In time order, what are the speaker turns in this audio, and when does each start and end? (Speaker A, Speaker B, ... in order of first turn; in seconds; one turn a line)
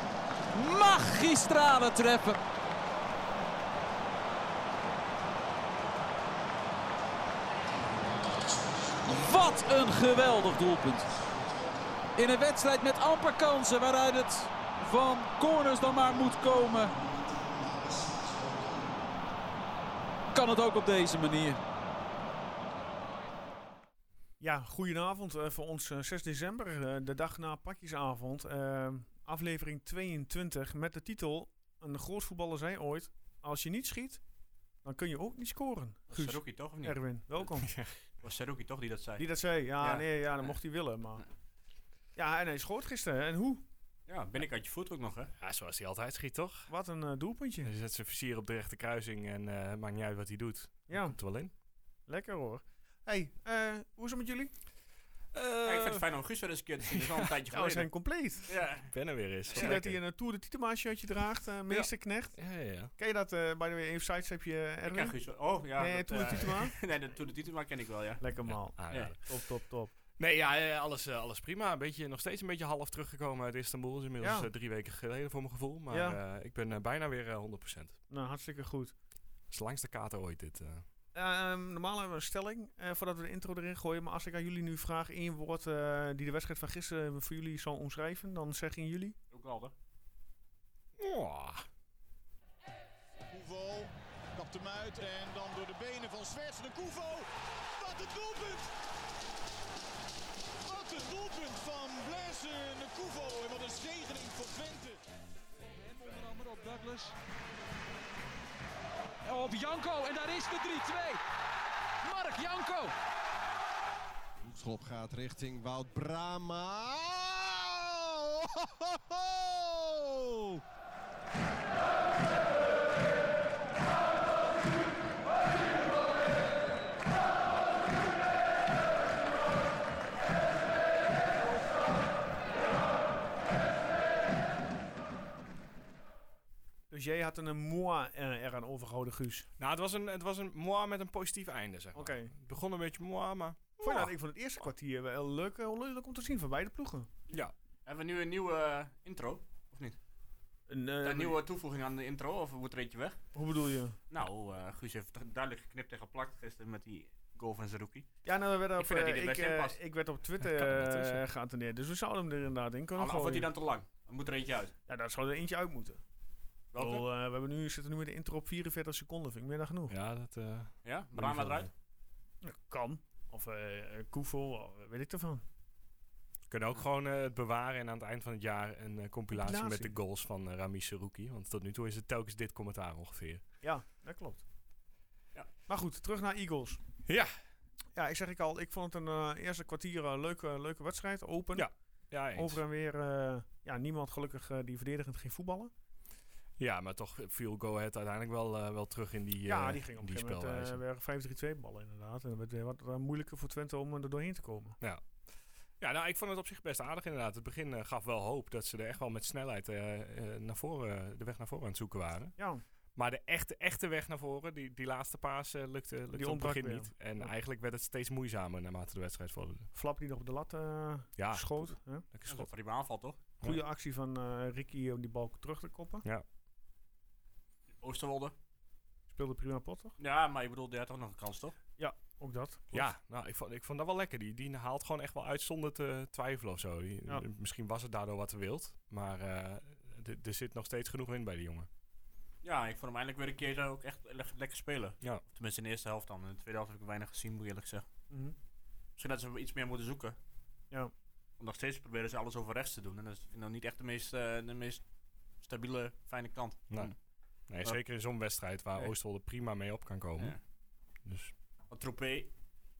Speaker A: 0.5-2.4
Speaker A: 9.0-11.2
Speaker A: 12.2-18.9
Speaker A: 20.3-21.6
Speaker B: 24.4-34.2
Speaker B: 34.8-37.7
Speaker C: 36.1-37.0
Speaker D: 37.6-37.9
Speaker C: 38.2-39.2
Speaker B: 39.2-41.2
Speaker C: 39.8-40.5
Speaker B: 42.2-43.6
Speaker C: 44.1-45.3
Speaker D: 45.4-46.7
Speaker B: 46.7-47.7
Speaker D: 47.6-51.5
Speaker B: 50.9-51.2
Speaker B: 52.1-54.5
Speaker D: 55.3-56.0
Speaker C: 55.6-57.9
Speaker D: 56.9-57.3
Speaker B: 57.5-58.5
Speaker C: 58.5-58.9
Speaker D: 58.9-60.0
Speaker C: 59.5-59.8
Speaker B: 59.5-62.4
Speaker D: 61.7-62.9
Speaker B: 63.0-65.1
Speaker C: 64.8-68.2
Speaker B: 65.8-66.7
Speaker B: 68.2-69.9
Speaker D: 68.5-69.2
Speaker D: 70.2-78.0
Speaker B: 74.2-74.5
Speaker B: 75.9-76.2
Speaker B: 78.1-78.9
Speaker D: 79.5-80.8
Speaker B: 81.1-89.2
Speaker C: 89.3-89.7
Speaker D: 91.0-91.6
Speaker E: 93.3-98.7
Speaker E: 100.7-105.0
Speaker A: 105.7-107.1
Speaker A: 109.2-111.2
Speaker A: 112.0-112.9
Speaker E: 114.4-120.6
Speaker B: 136.9-139.5
Speaker D: 139.6-144.1
Speaker B: 141.9-142.3
Speaker B: 143.8-147.1
Speaker C: 147.8-150.0
Speaker B: 150.7-151.4
Speaker C: 151.0-153.2
Speaker B: 153.3-154.0
Speaker C: 154.1-158.1
Speaker B: 158.2-163.5
Speaker C: 158.8-159.8
Speaker D: 160.4-161.2
Speaker C: 163.0-164.8
Speaker B: 164.9-166.0
Speaker C: 166.7-167.0
Speaker B: 166.8-169.9
Speaker D: 169.9-171.7
Speaker C: 170.8-171.7
Speaker B: 172.4-175.4
Speaker D: 176.5-183.4
Speaker B: 179.3-180.0
Speaker B: 183.6-184.4
Speaker B: 185.7-186.8
Speaker D: 187.1-187.3
Speaker B: 188.0-191.7
Speaker D: 191.5-192.6
Speaker B: 192.3-195.7
Speaker D: 196.6-200.8
Speaker B: 199.5-204.8
Speaker D: 205.8-212.3
Speaker D: 213.0-219.7
Speaker B: 216.1-217.3
Speaker B: 219.7-222.0
Speaker D: 221.2-222.5
Speaker C: 222.3-223.2
Speaker B: 223.4-226.0
Speaker C: 227.8-228.3
Speaker B: 229.1-230.0
Speaker C: 230.0-231.6
Speaker B: 231.8-232.9
Speaker D: 232.7-241.7
Speaker C: 242.4-247.8
Speaker B: 248.1-248.3
Speaker C: 249.0-250.2
Speaker C: 251.4-254.8
Speaker C: 255.4-256.9
Speaker D: 257.5-260.4
Speaker D: 261.1-261.3
Speaker C: 261.7-262.3